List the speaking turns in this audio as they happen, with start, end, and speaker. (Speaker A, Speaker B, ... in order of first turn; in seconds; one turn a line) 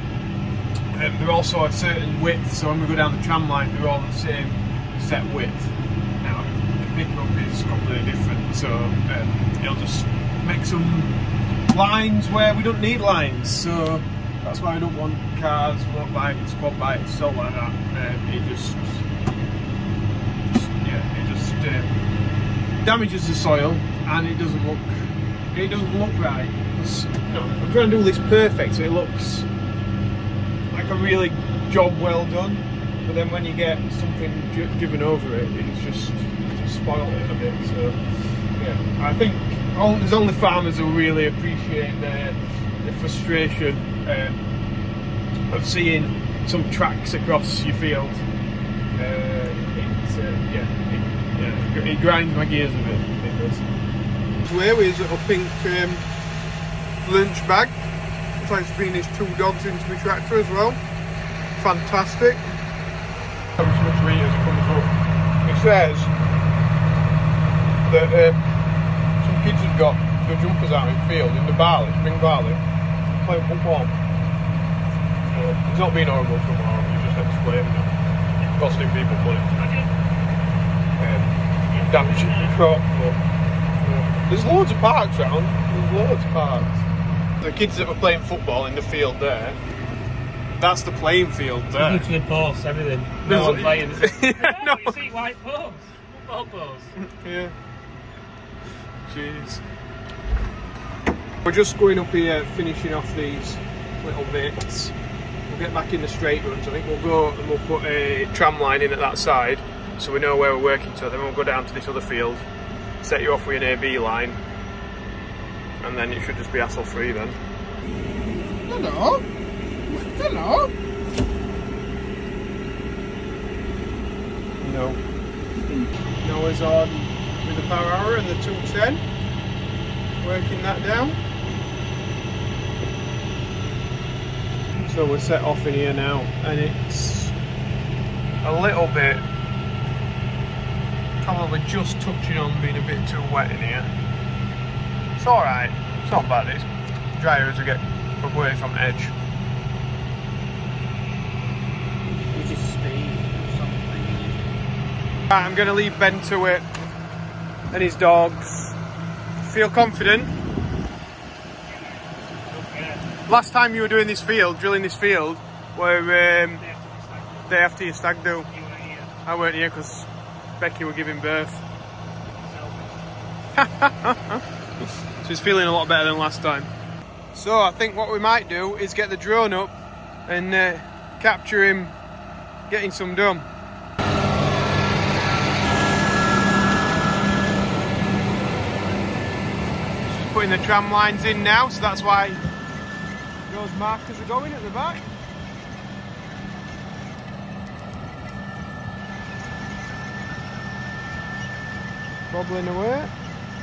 Speaker A: 0.9-11.1
Speaker A: 11.7-19.1
Speaker A: 20.5-21.9
Speaker A: 22.8-29.5
Speaker A: 30.7-44.3
Speaker A: 45.5-48.2
Speaker A: 48.9-53.6
Speaker A: 54.4-56.0
Speaker A: 57.0-57.8
Speaker A: 58.4-60.8
Speaker A: 61.5-62.5
Speaker A: 63.6-66.1
Speaker A: 67.8-68.5
Speaker A: 69.2-72.6
Speaker A: 73.1-73.9
Speaker A: 75.3-79.7
Speaker B: 79.6-79.9
Speaker A: 81.0-83.2
Speaker B: 81.7-82.6
Speaker A: 83.8-86.8
Speaker A: 87.4-89.6
Speaker A: 90.5-92.1
Speaker B: 91.7-96.9
Speaker A: 93.2-95.0
Speaker A: 97.0-97.5
Speaker A: 99.1-99.6
Speaker A: 101.4-104.9
Speaker A: 105.5-112.4
Speaker A: 113.0-114.4
Speaker A: 115.8-117.4
Speaker A: 118.7-119.2
Speaker A: 119.9-120.7
Speaker A: 124.6-125.0
Speaker A: 126.2-129.0
Speaker A: 130.2-131.2
Speaker A: 134.7-137.3
Speaker A: 138.4-139.2
Speaker A: 141.2-143.9
Speaker A: 145.2-149.1
Speaker B: 152.3-154.4
Speaker A: 155.3-156.7
Speaker A: 157.7-158.8
Speaker A: 159.4-160.3
Speaker B: 161.6-163.1
Speaker A: 163.3-166.6
Speaker B: 166.6-167.6
Speaker A: 167.5-168.5
Speaker B: 168.5-169.1
Speaker A: 169.2-170.1
Speaker A: 170.6-171.6
Speaker B: 172.2-173.3
Speaker A: 173.6-174.4
Speaker A: 175.2-176.7
Speaker A: 177.3-179.7
Speaker A: 180.2-181.9
Speaker A: 182.7-183.5
Speaker A: 190.1-192.4
Speaker A: 193.5-195.1
Speaker A: 202.3-203.1